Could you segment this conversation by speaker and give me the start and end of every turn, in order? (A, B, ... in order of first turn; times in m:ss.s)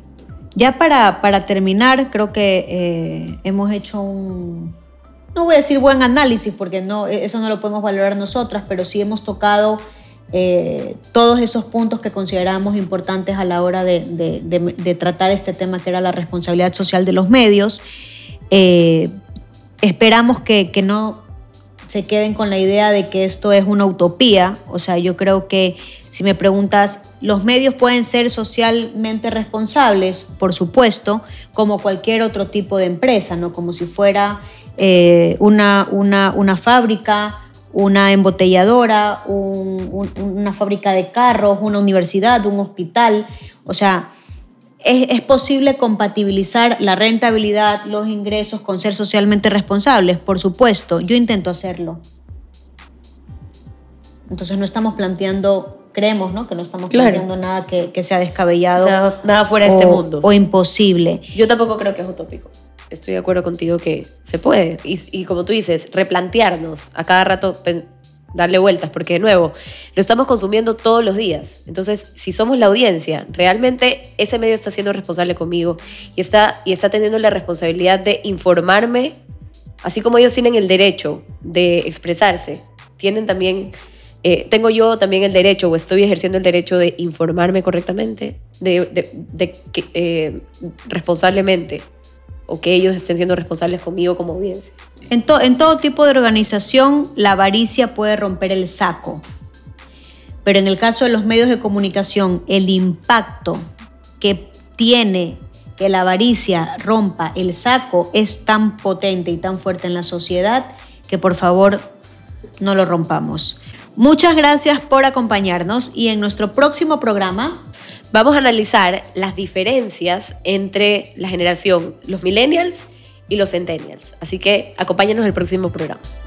0:00.5-0:04.7 A
0:05.3-0:17.8 A
0:18.5-0:19.1 A
0:19.8-0:21.2 A
0:21.9-0:44.1 A
0:44.8-0:52.0 A
0:54.3-0:58.9 A
0:56.9-0:57.2 B
0:58.8-1:00.3 B
0:59.6-1:01.3 A
1:01.3-1:19.2 B
1:19.8-1:23.7 B
1:24.2-1:31.8 B
1:32.5-1:34.7 B
1:35.1-1:39.2 A
1:40.4-1:43.6 A
1:44.2-1:51.9 A
1:52.6-1:57.6 A
1:58.1-2:06.0 B